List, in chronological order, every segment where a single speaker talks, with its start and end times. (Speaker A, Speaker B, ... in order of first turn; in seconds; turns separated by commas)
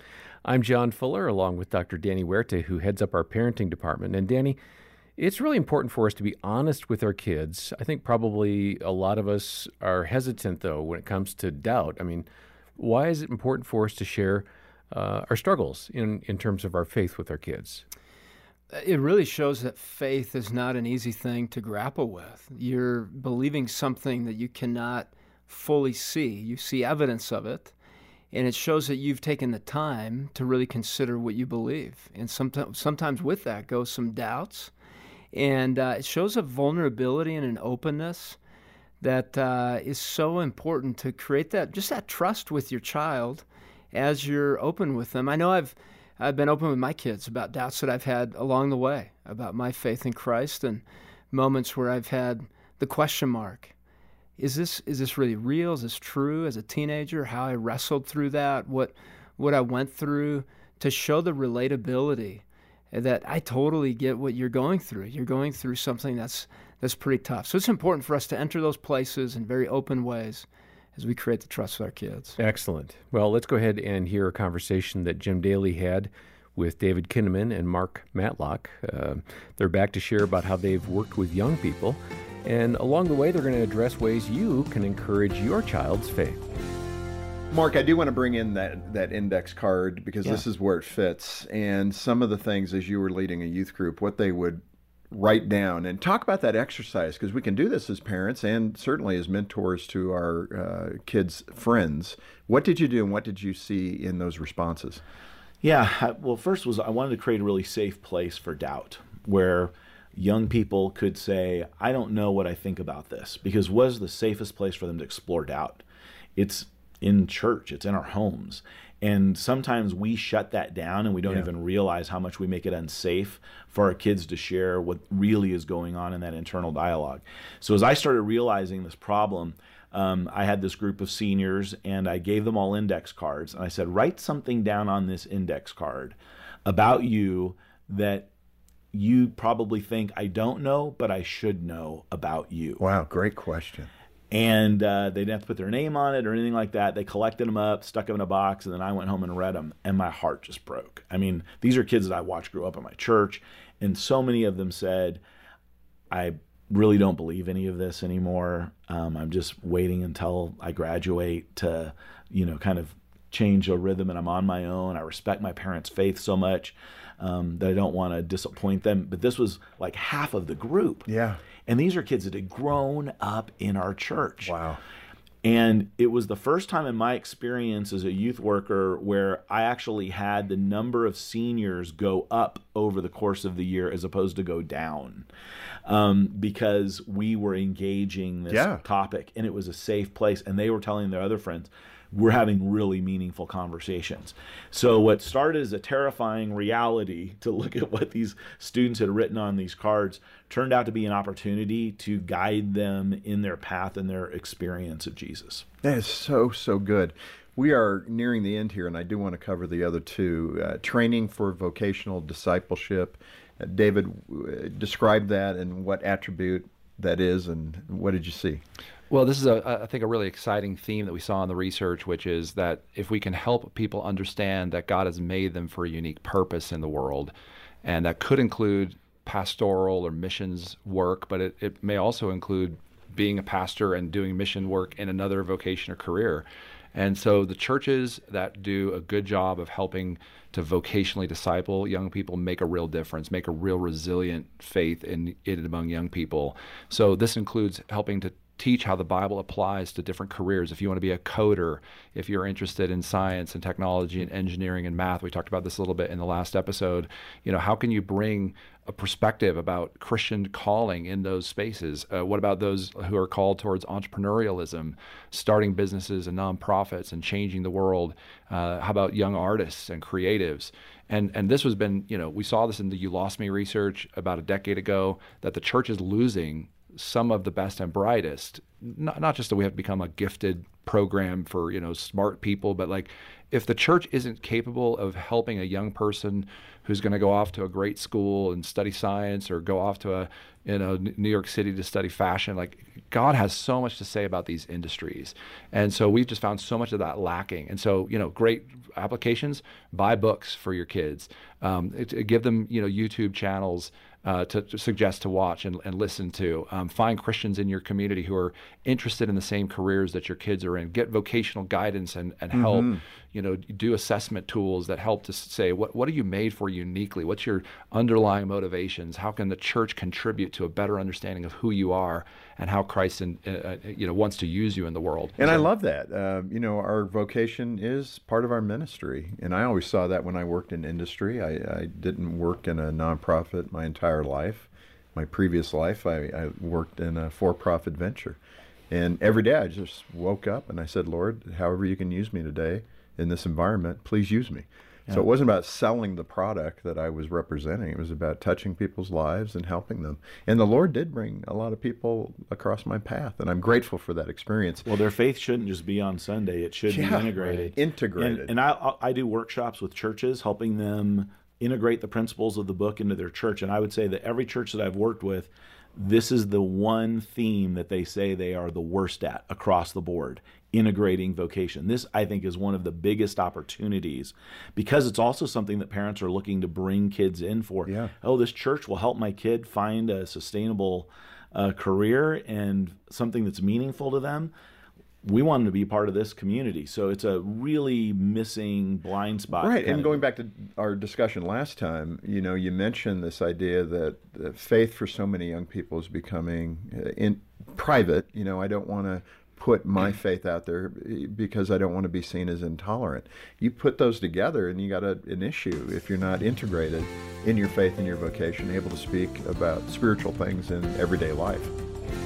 Speaker A: 0.4-4.6, Speaker A: 5.2-12.2, Speaker A: 12.8-17.8, Speaker B: 18.7-27.7, Speaker B: 28.3-34.7, Speaker B: 35.3-38.4, Speaker B: 39.0-53.7, Speaker B: 54.4-72.4, Speaker A: 72.4-86.5, Speaker C: 87.5-105.0, Speaker D: 105.6-115.8, Speaker D: 116.3-138.3, Speaker D: 138.9-142.8, Speaker C: 142.8-143.9, Speaker D: 144.3-155.2, Speaker D: 156.1-171.1, Speaker C: 171.1-171.4, Speaker D: 171.7-174.5, Speaker C: 174.4-174.8, Speaker D: 175.4-185.3, Speaker D: 185.8-205.6, Speaker C: 188.5-188.8, Speaker C: 205.8-218.6, Speaker E: 219.1-227.3, Speaker E: 227.8-325.7, Speaker C: 312.5-313.0, Speaker C: 325.4-338.4, Speaker C: 338.9-354.9, Speaker D: 354.8-384.5, Speaker C: 356.9-358.5, Speaker C: 377.9-378.1, Speaker D: 385.2-390.2, Speaker C: 389.6-411.7